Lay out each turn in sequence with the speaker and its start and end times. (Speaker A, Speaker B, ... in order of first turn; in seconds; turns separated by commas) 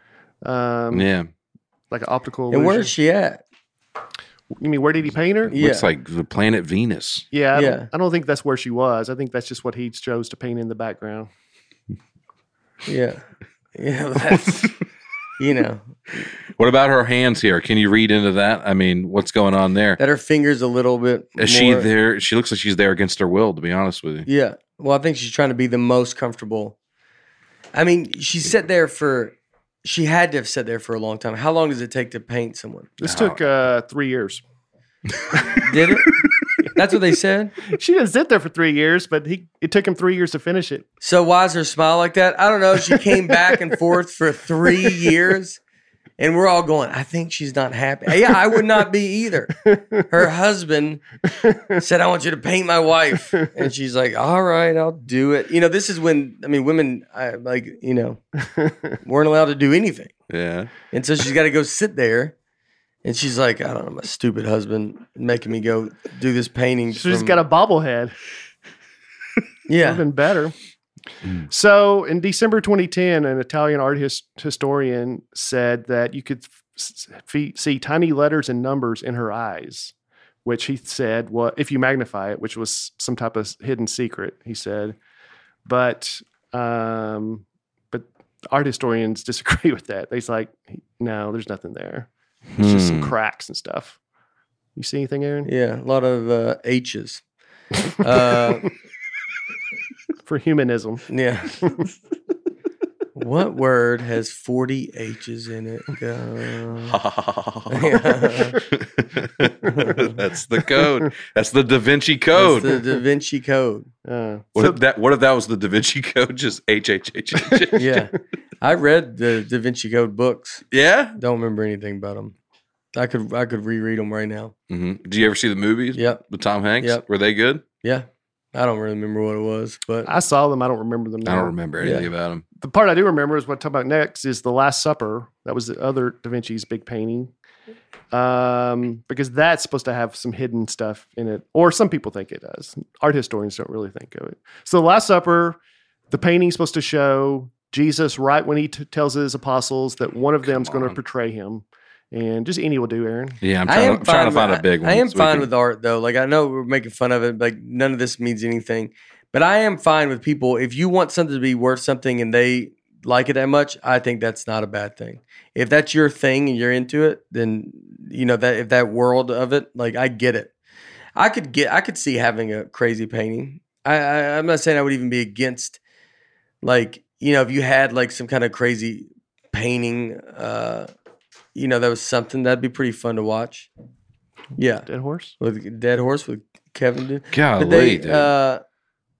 Speaker A: 0.4-1.1, Speaker B: 0.9-1.3, Speaker A: 1.9-2.9, Speaker C: 2.5-3.4, Speaker A: 4.6-5.5, Speaker B: 5.5-7.2, Speaker C: 5.5-5.9, Speaker A: 7.3-11.3, Speaker C: 7.5-7.9, Speaker C: 12.8-14.7, Speaker C: 15.4-16.0, Speaker B: 16.6-20.0, Speaker C: 20.0-21.9, Speaker B: 21.4-24.3, Speaker C: 24.2-26.8, Speaker C: 27.7-32.9, Speaker A: 33.0-34.4, Speaker B: 33.0-33.4, Speaker C: 35.5-36.1, Speaker C: 36.7-37.5, Speaker A: 37.7-40.9, Speaker C: 41.0-45.6, Speaker C: 46.2-51.0, Speaker A: 49.6-50.0, Speaker A: 51.4-51.8, Speaker C: 51.7-58.2, Speaker A: 58.4-58.9, Speaker C: 59.0-60.1, Speaker B: 60.3-60.7, Speaker C: 60.9-62.3, Speaker C: 63.0-67.4, Speaker A: 66.9-68.1, Speaker C: 69.7-70.0, Speaker A: 69.8-70.5, Speaker A: 71.5-79.9, Speaker A: 80.4-85.0, Speaker A: 85.7-94.0, Speaker B: 92.5-93.1, Speaker A: 94.7-95.5, Speaker C: 95.4-97.2, Speaker C: 98.0-98.7, Speaker A: 100.2-101.1, Speaker C: 101.1-101.7, Speaker A: 101.6-101.9, Speaker C: 103.1-107.0, Speaker B: 106.9-113.0, Speaker C: 107.7-108.6, Speaker C: 109.7-110.1, Speaker C: 112.3-113.9, Speaker A: 114.0-114.8, Speaker B: 114.5-118.0, Speaker A: 117.4-117.7, Speaker C: 117.7-120.6, Speaker B: 120.7-121.2, Speaker C: 121.2-122.3, Speaker C: 122.9-124.5, Speaker B: 124.7-127.6, Speaker C: 125.9-126.2, Speaker C: 127.8-130.1, Speaker A: 130.0-131.5, Speaker B: 131.2-132.4, Speaker C: 131.8-132.1, Speaker A: 132.6-137.3, Speaker A: 138.1-145.6, Speaker A: 146.1-153.4, Speaker B: 150.5-150.9, Speaker B: 153.4-155.5, Speaker C: 153.7-170.5, Speaker C: 171.2-175.8, Speaker C: 176.6-180.9, Speaker C: 181.5-183.7, Speaker C: 184.6-184.9, Speaker A: 184.8-185.3, Speaker C: 185.4-188.6, Speaker B: 187.3-188.3